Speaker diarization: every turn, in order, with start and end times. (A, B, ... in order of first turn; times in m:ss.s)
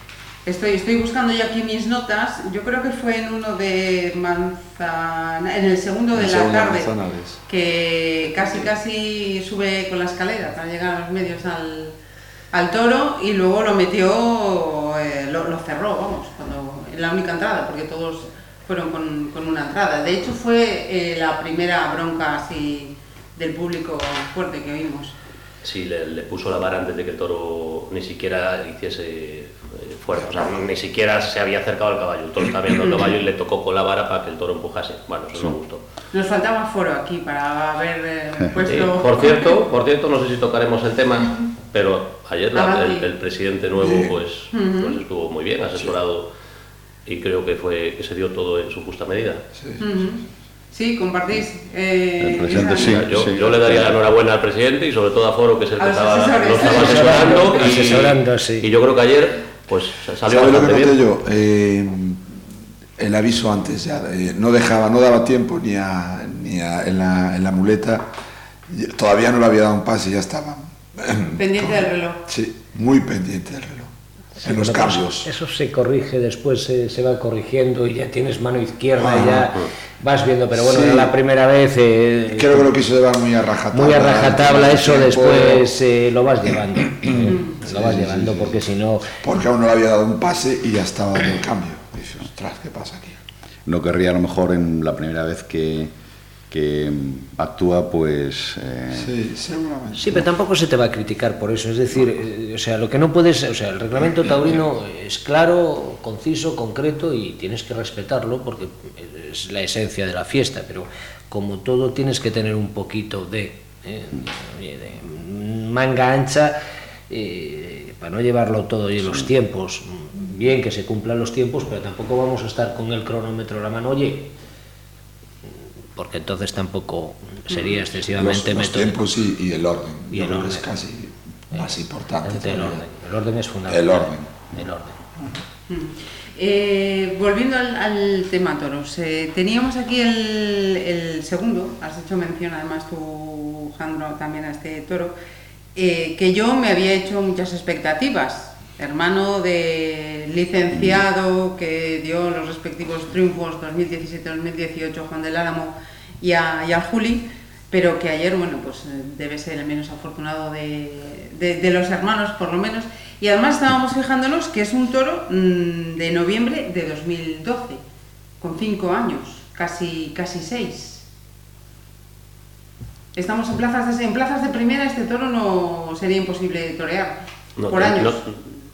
0:00.4-0:06.9 A
0:06.1-0:07.4 B
0:07.5-0:11.9 A
0:12.5-0:25.1 A
0:25.6-0:35.8 C
0:32.8-0:33.1 A
0:36.1-0:39.6 A
0:38.6-0:46.3 C
0:42.5-0:43.1 A
0:43.8-0:44.2 B
0:44.5-0:45.0 A
0:47.0-0:49.4 C
0:49.6-0:49.8 B
0:49.8-0:50.2 A
0:50.7-0:53.3 A
0:52.2-0:54.0 D
0:52.5-1:01.0 C
0:55.8-0:57.8 A
0:56.6-0:58.7 E
1:00.2-1:02.3 B
1:03.0-1:08.1 B
1:08.7-1:13.9 B
1:11.4-1:12.2 A
1:14.4-1:15.3 B
1:14.4-1:22.7 E
1:19.0-1:19.5 B
1:20.5-1:21.1 B
1:22.3-1:25.6 B
1:23.7-1:29.1 E
1:26.9-1:28.6 B
1:29.2-1:33.2 B
1:33.6-1:35.9 D
1:36.5-1:39.1 D
1:38.9-1:40.2 B
1:39.9-1:56.6 E
1:57.1-2:04.3 E
2:06.0-2:09.0 E
2:07.5-2:07.8 A
2:08.1-2:12.8 B
2:10.1-2:10.7 E
2:12.2-2:15.0 E
2:13.7-2:14.3 B
2:15.7-2:25.1 A
2:25.7-2:47.8 A
2:30.7-2:31.0 D
2:48.4-2:51.0 A
2:53.1-2:58.2 A
2:57.6-2:58.4 C